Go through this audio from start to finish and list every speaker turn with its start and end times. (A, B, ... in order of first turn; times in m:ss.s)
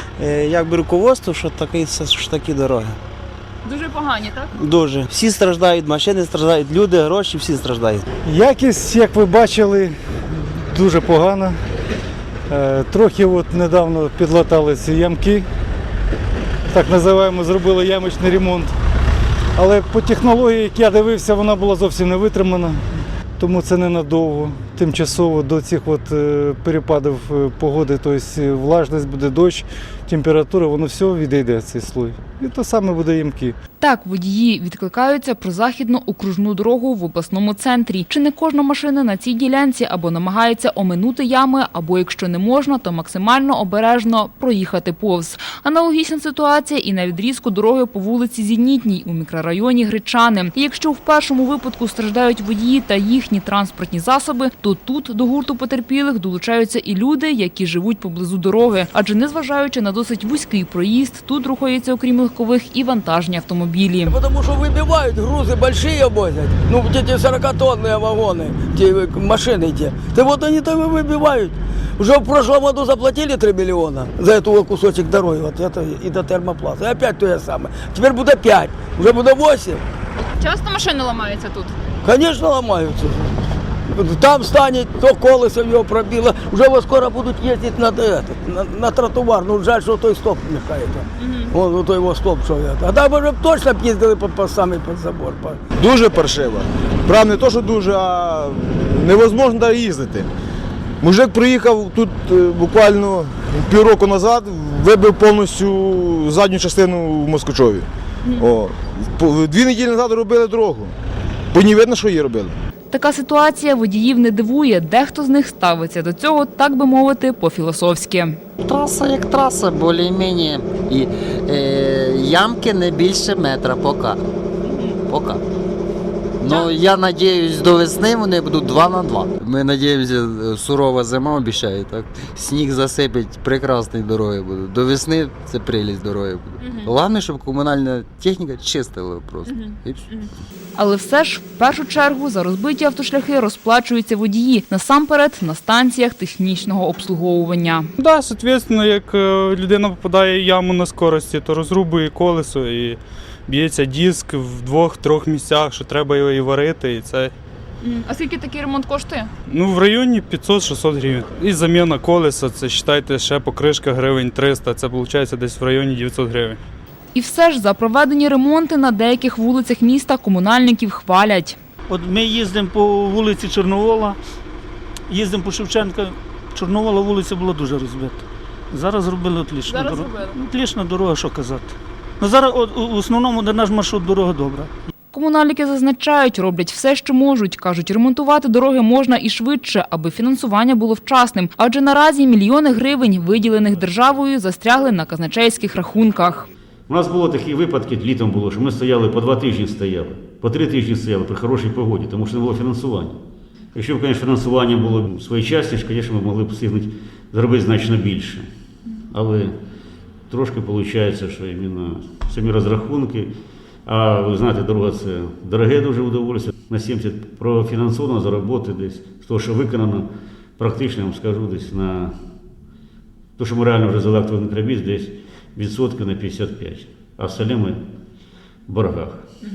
0:00.2-0:03.0 A
0:03.7-0:04.2 B
0:04.6-0:08.0 A
0:08.3-0:09.9 C
0:10.7-0:11.6 C
0:12.5-0:15.4 C
0:16.7-0:18.7 C
0:19.6-0:22.8 C
0:23.4-0:33.6 C
0:33.8-1:04.2 D
1:04.1-1:19.8 E
1:20.4-1:21.7 B
1:22.0-1:35.6 E
1:35.8-1:40.3 F
1:41.0-1:50.9 F
1:51.5-1:52.5 F
1:52.9-1:58.4 D
1:58.6-2:04.2 G
2:05.1-2:05.4 G
2:06.4-2:20.0 G
2:20.8-2:27.9 D
2:28.0-2:37.3 H
2:37.9-2:39.3 D
2:39.5-2:46.6 H
2:47.1-2:51.6 D
2:51.9-2:54.2 B
2:55.1-3:04.7 B
2:59.8-3:00.1 D
3:05.1-3:16.5 D
3:16.9-3:23.2 I
3:23.8-3:28.5 I
3:29.1-3:29.6 I
3:30.3-3:33.4 I
3:33.9-3:42.2 I
3:43.4-3:47.8 I
3:48.7-3:49.2 I